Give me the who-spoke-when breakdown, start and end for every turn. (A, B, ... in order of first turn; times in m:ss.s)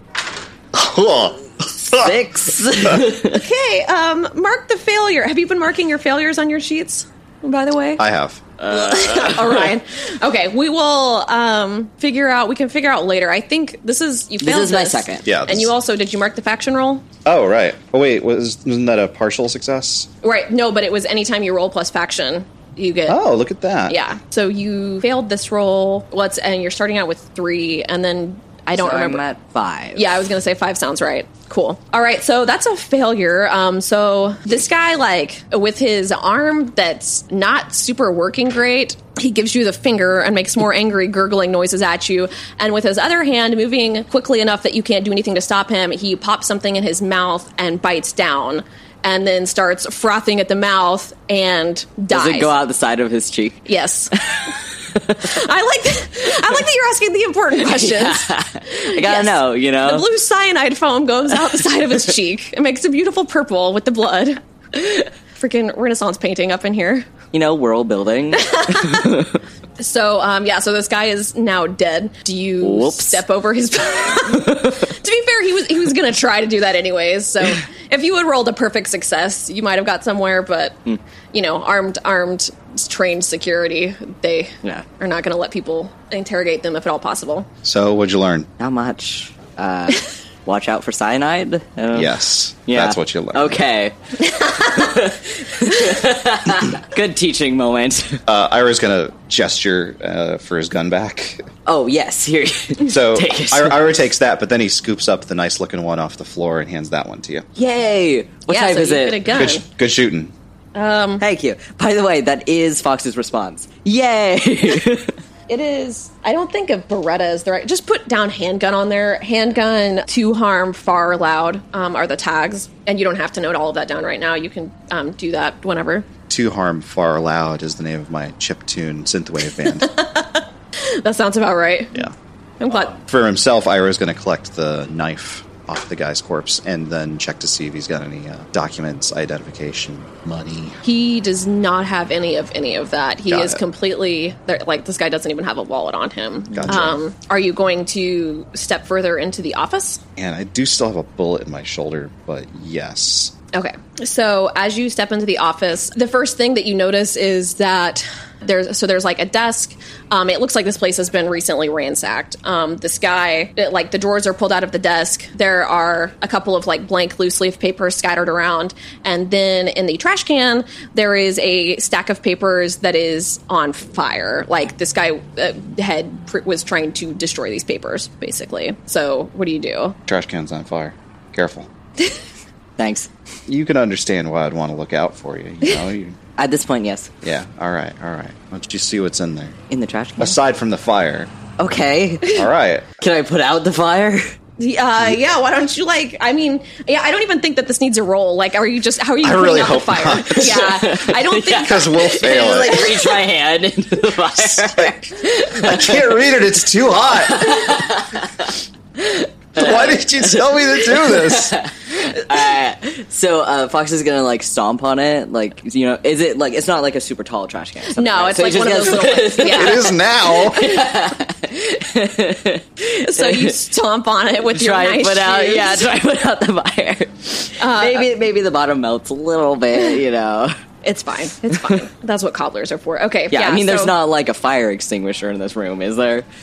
0:00.7-0:02.2 A
0:01.9-0:03.4 B
0:03.3-0:08.0 C
0:08.0-0:08.5 A
0:08.6-0:09.7 B
0:08.6-0:17.0 C
0:14.4-0:15.3 B
0:15.2-0:15.7 A
0:17.2-0:20.1 A
0:20.2-0:23.2 C
0:23.1-0:24.0 A
0:23.9-0:29.2 C
0:28.7-0:30.1 B
0:29.9-0:52.5 C
0:52.1-0:55.4 B
0:53.6-0:54.1 C
0:55.2-1:07.1 C
0:57.6-1:00.0 B
1:07.3-1:09.4 B
1:08.3-1:09.1 C
1:09.8-1:20.8 C
1:12.6-1:13.2 B
1:14.3-1:14.8 B
1:21.3-1:27.5 C
1:27.6-1:28.5 A
1:28.6-1:32.2 B
1:31.9-1:33.6 A
1:32.7-1:33.9 B
1:34.2-1:34.9 C
1:34.5-1:38.2 B
1:38.3-1:41.4 A
1:41.6-1:43.9 B
1:42.8-1:47.4 A
1:47.6-1:49.3 B
1:48.5-1:49.6 C
1:49.3-1:50.3 A
1:50.7-1:51.2 C
1:51.2-1:55.2 B
1:55.5-2:06.1 C
2:06.3-2:09.9 A
2:09.6-2:12.9 C
2:12.7-2:20.8 A
2:20.8-2:30.0 C
2:23.3-2:23.6 A
2:26.5-2:27.0 A
2:30.2-2:33.3 A
2:33.5-3:00.0 C
3:00.1-3:01.7 A
3:02.8-3:03.1 B
3:03.5-3:06.2 A
3:06.4-3:07.1 B
3:07.2-3:09.6 A
3:09.7-3:10.4 B
3:10.2-3:11.3 A
3:11.6-3:12.5 B
3:12.3-3:12.9 A
3:13.0-3:14.3 B
3:14.6-3:23.2 C
3:19.2-3:20.8 A
3:20.3-3:26.2 B
3:21.6-3:22.8 A
3:24.4-3:27.6 A
3:27.3-3:42.6 B
3:29.5-3:31.6 A
3:37.9-3:40.0 C
3:39.4-3:40.7 A
3:40.6-3:40.8 C
3:42.8-3:45.9 C
3:43.2-3:43.6 B
3:44.4-3:50.5 B
3:47.6-3:48.1 C
3:50.8-3:53.9 C
3:53.3-3:56.2 B